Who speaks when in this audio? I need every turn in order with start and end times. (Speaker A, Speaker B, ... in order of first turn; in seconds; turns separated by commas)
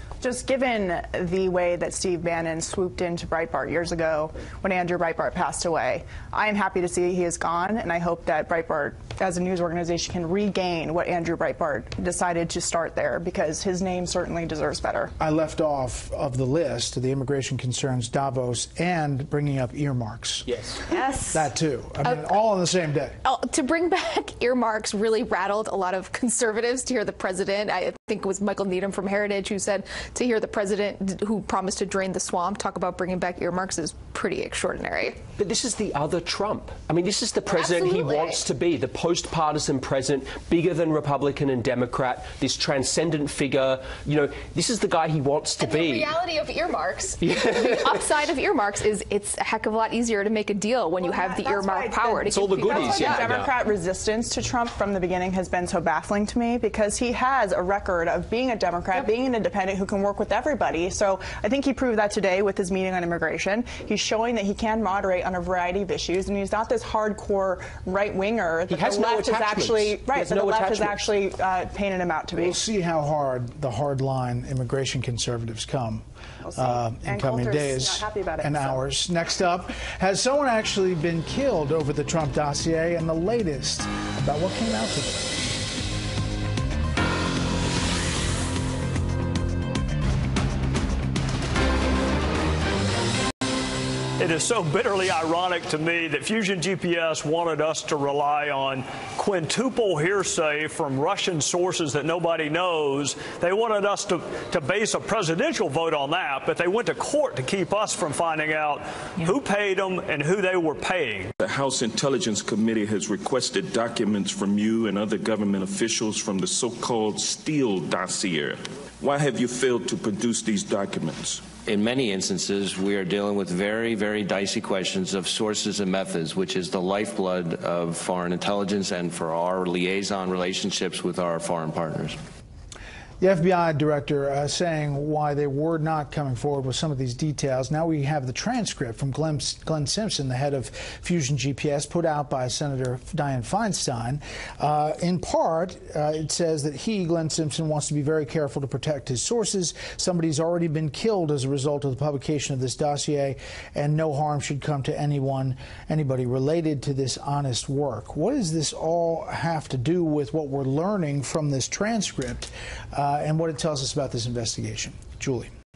Speaker A: 0.2-15.1, Speaker B: 15.2-20.5, Speaker C: 20.9-21.5, Speaker B: 21.3-23.2, Speaker C: 22.0-22.3, Speaker C: 23.2-35.2, Speaker D: 35.4-46.1, Speaker C: 37.5-38.4, Speaker C: 45.6-53.1, Speaker D: 47.2-48.0, Speaker A: 51.0-72.6, Speaker D: 52.3-53.6, Speaker D: 68.7-71.0, Speaker B: 72.4-76.0, Speaker A: 76.5-78.8, Speaker B: 76.6-85.3, Speaker E: 94.2-111.3, Speaker F: 111.4-121.6, Speaker G: 121.7-132.2, Speaker B: 133.2-165.5